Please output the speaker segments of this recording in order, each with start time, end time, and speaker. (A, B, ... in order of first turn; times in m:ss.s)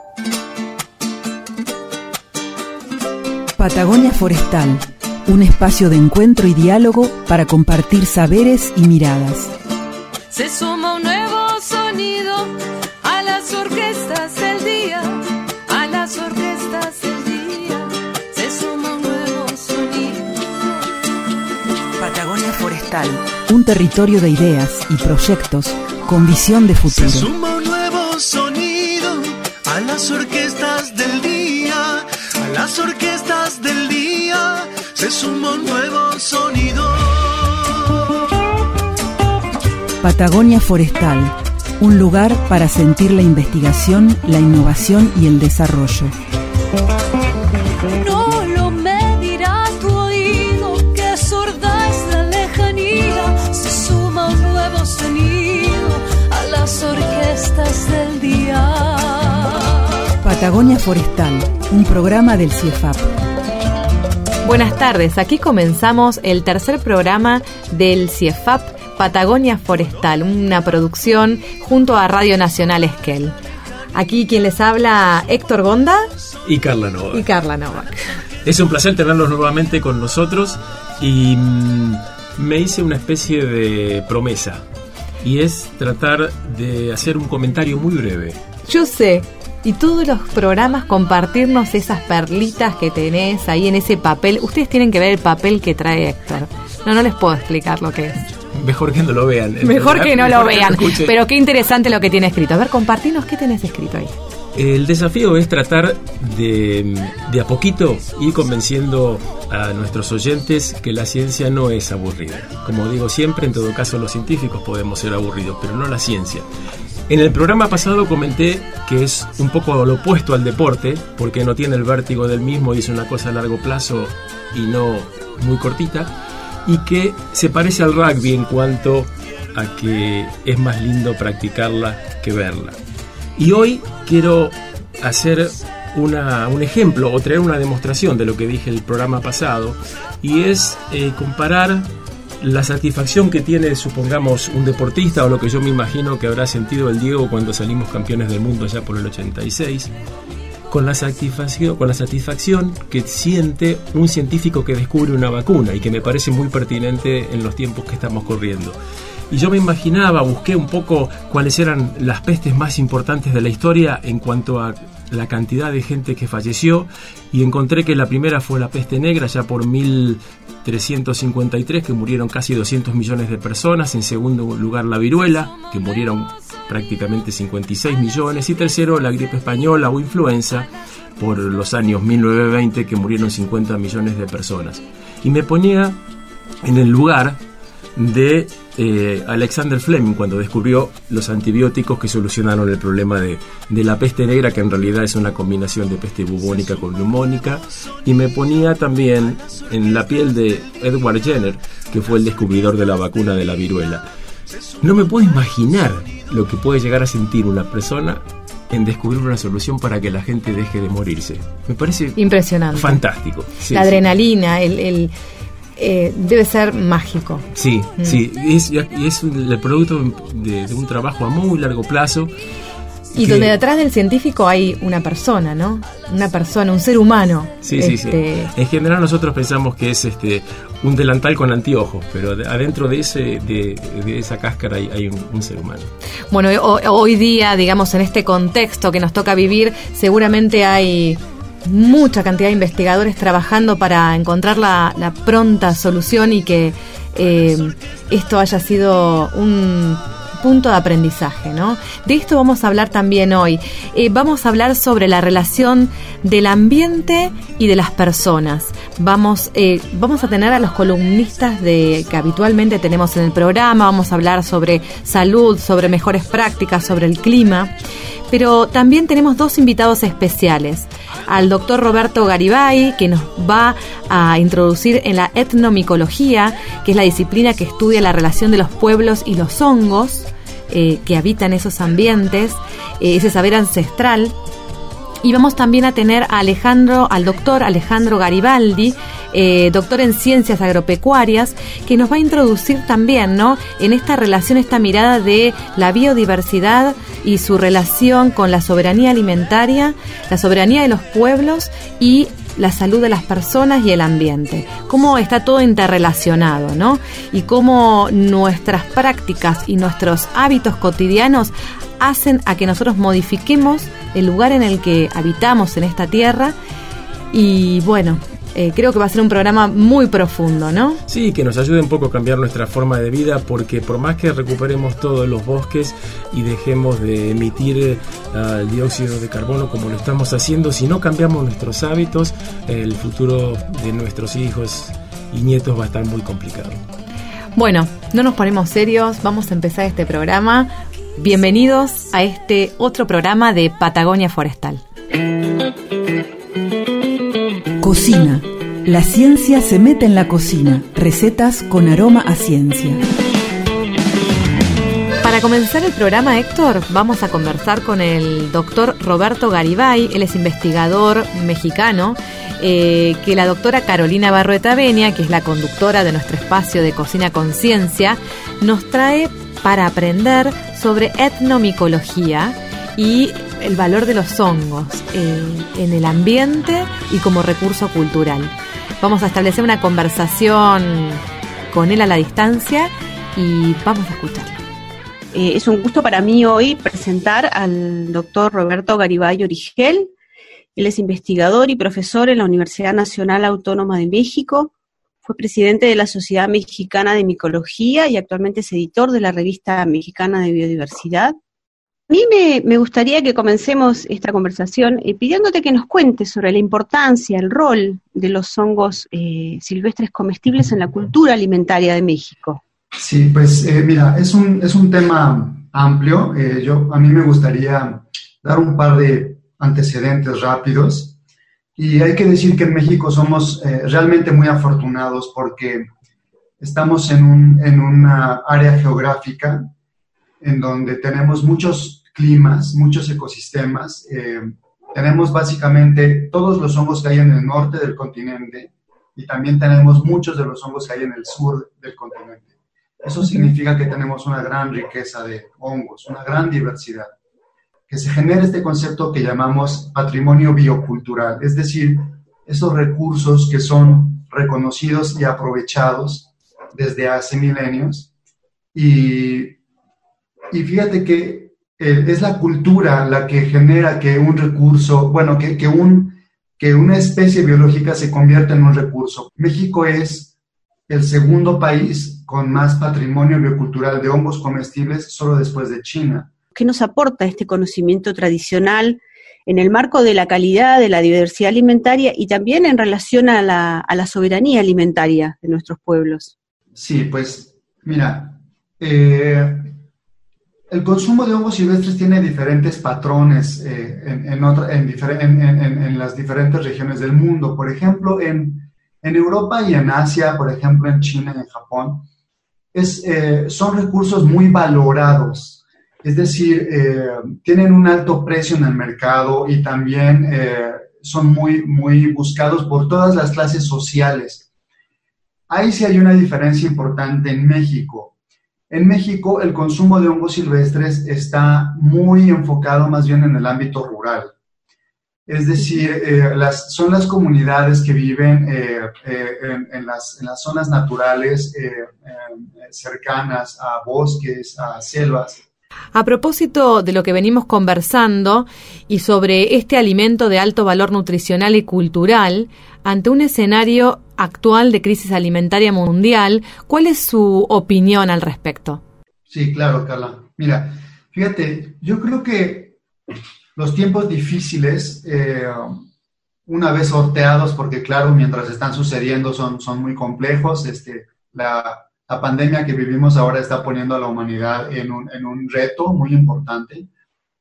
0:03.6-0:09.5 A
0:10.3-0:20.7 B
0:22.0-0:27.3 A
0:26.9-0:37.8 C
0:40.0-0:46.1 A
0:47.9-0:59.8 B
1:00.2-1:03.1 A
1:04.4-1:13.4 D
1:13.9-1:16.0 D
1:16.4-1:17.3 E
1:17.1-1:18.0 D
1:18.4-1:24.6 E
1:25.2-1:28.4 E
1:28.6-1:38.2 D
1:38.5-1:41.1 E
1:39.6-1:44.1 D
1:44.5-1:56.4 E
1:57.1-2:06.1 E
2:06.6-2:12.8 E
2:13.4-2:21.9 E
2:22.4-2:29.9 E
2:30.7-2:38.8 E
2:39.3-3:06.0 E
3:06.6-3:07.4 E
3:08.0-3:24.0 E
3:24.8-3:34.0 E
3:32.2-3:33.0 D
3:33.7-3:35.1 D
3:35.8-3:38.2 D
3:37.5-3:42.3 E
3:43.1-3:43.5 E
3:43.1-3:48.5 D
3:47.6-3:55.9 E
3:56.3-4:27.7 D
4:28.3-4:44.3 D
4:45.2-5:16.5 D
5:17.3-5:21.0 D
5:21.1-5:36.8 E
5:37.6-5:44.8 D
5:47.8-5:53.0 A
5:55.2-6:24.6 D
6:25.3-6:30.1 F
6:30.8-6:34.7 F
6:35.2-6:41.4 F
6:42.1-6:52.6 F
6:52.9-7:01.1 G
7:01.8-7:05.9 G
7:06.6-7:09.7 G
7:10.4-7:27.1 G
7:27.9-7:38.1 G
7:38.7-7:39.6 G
7:40.5-7:50.3 G
7:50.9-7:56.3 G
7:56.5-8:06.3 F
8:06.8-8:09.8 G
8:10.7-8:22.0 G
8:22.7-8:34.4 G
8:35.5-8:38.1 G
8:38.7-8:44.3 G
8:45.3-8:55.4 G
8:55.9-9:08.8 D
9:09.3-9:12.8 G
9:13.5-9:15.8 G
9:16.5-9:26.9 G